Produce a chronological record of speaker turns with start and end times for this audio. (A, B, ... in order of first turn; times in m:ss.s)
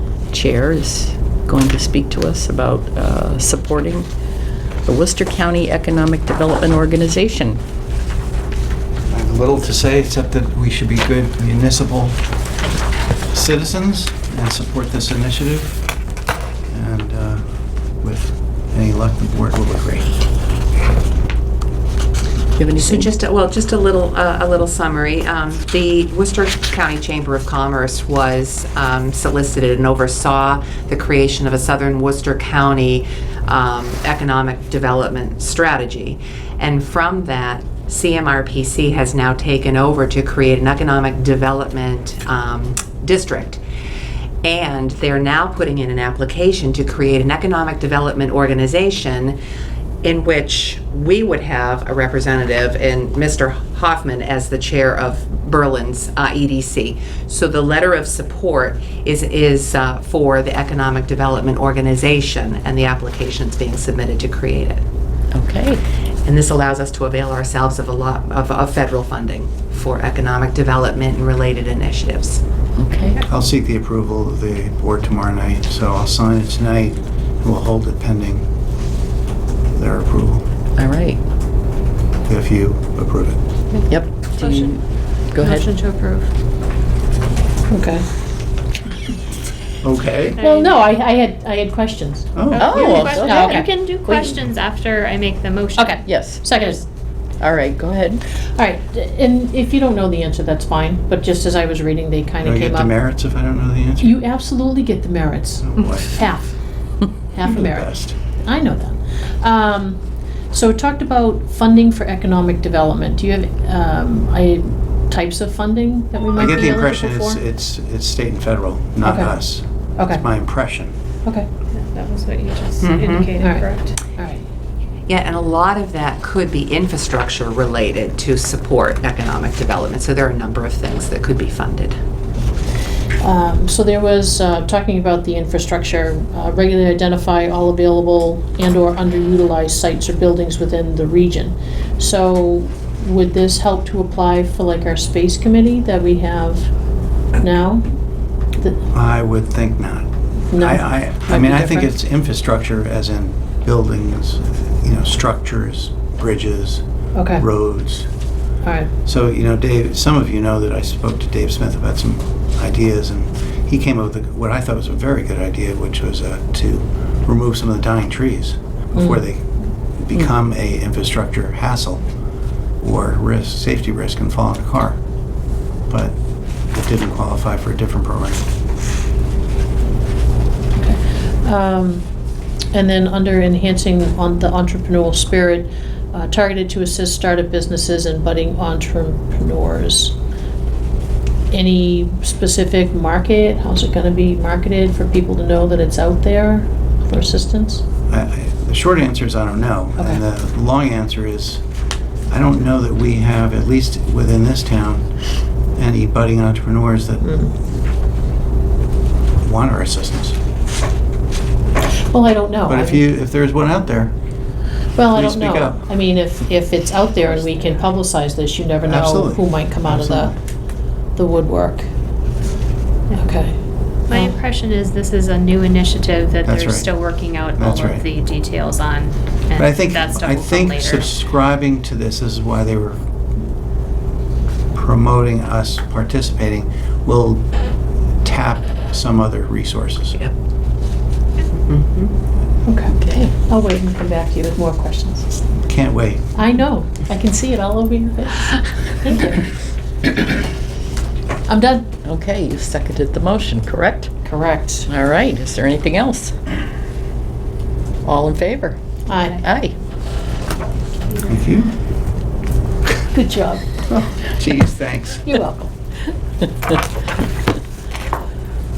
0:00.3-0:04.1 A
0:04.8-0:07.6 A
0:09.1-0:12.2 B
0:13.3-0:15.8 B
0:16.7-0:17.4 B
0:18.0-0:20.2 B
0:22.6-0:23.1 A
0:22.8-0:43.6 C
0:44.4-0:49.4 C
0:50.0-1:04.8 C
1:05.3-1:05.8 A
1:06.2-1:12.4 C
1:12.8-1:13.2 A
1:13.2-1:18.5 B
1:19.7-1:20.4 B
1:20.8-1:21.2 A
1:22.2-1:23.4 B
1:23.7-1:24.8 D
1:23.9-1:25.7 A
1:25.4-1:26.3 D
1:27.7-1:28.0 E
1:29.8-1:30.4 B
1:30.4-1:30.8 D
1:30.4-1:34.4 E
1:32.3-1:33.0 B
1:32.5-1:36.0 D
1:32.6-1:33.6 A
1:35.8-1:36.8 E
1:36.0-1:36.4 A
1:37.4-1:38.2 A
1:38.5-1:42.9 E
1:42.4-1:44.2 B
1:44.0-1:46.6 E
1:45.6-1:46.2 B
1:47.3-1:57.4 E
1:47.4-1:48.2 B
1:56.4-2:00.9 B
1:59.0-1:59.3 E
2:00.0-2:00.2 E
2:01.7-2:04.0 D
2:02.8-2:03.3 C
2:03.4-2:04.4 E
2:05.1-2:12.0 C
2:13.2-2:26.7 E
2:27.4-2:27.8 E
2:28.9-2:36.8 B
2:30.5-2:31.9 E
2:37.1-2:37.4 E
2:37.3-2:38.1 B
2:38.6-2:38.9 E
2:39.0-2:49.4 B
2:48.9-2:49.2 E
2:50.0-2:52.0 B
2:52.8-2:55.0 B
2:55.9-2:56.2 B
2:56.7-2:58.4 B
3:00.8-3:02.0 E
3:02.7-3:10.2 E
3:11.5-3:17.8 E
3:18.1-3:21.6 B
3:22.3-3:25.1 B
3:25.8-3:27.3 B
3:27.2-3:27.5 E
3:29.4-3:30.4 B
3:31.9-3:33.0 E
3:32.7-3:34.1 B
3:34.9-3:40.3 E
3:35.1-3:35.9 B
3:38.8-3:40.4 B
3:41.1-3:41.9 E
3:43.2-3:43.6 E
3:44.1-3:51.1 D
3:44.1-3:44.4 E
3:46.4-3:46.9 B
3:47.5-3:48.0 B
3:49.6-3:53.0 B
3:54.7-3:57.5 B
3:58.2-4:00.2 B
4:01.6-4:02.1 C
4:02.6-4:05.3 E
4:02.9-4:03.3 A
4:05.6-4:06.3 B
4:06.3-4:09.5 E
4:11.5-4:11.9 E
4:12.0-4:14.1 A
4:14.2-4:14.9 E
4:14.9-4:16.3 A
4:18.0-4:18.8 A
4:19.0-4:19.4 E
4:19.4-4:19.7 A
4:21.2-4:21.7 B
4:23.1-4:23.7 E
4:23.9-4:25.3 B
4:25.2-4:25.7 E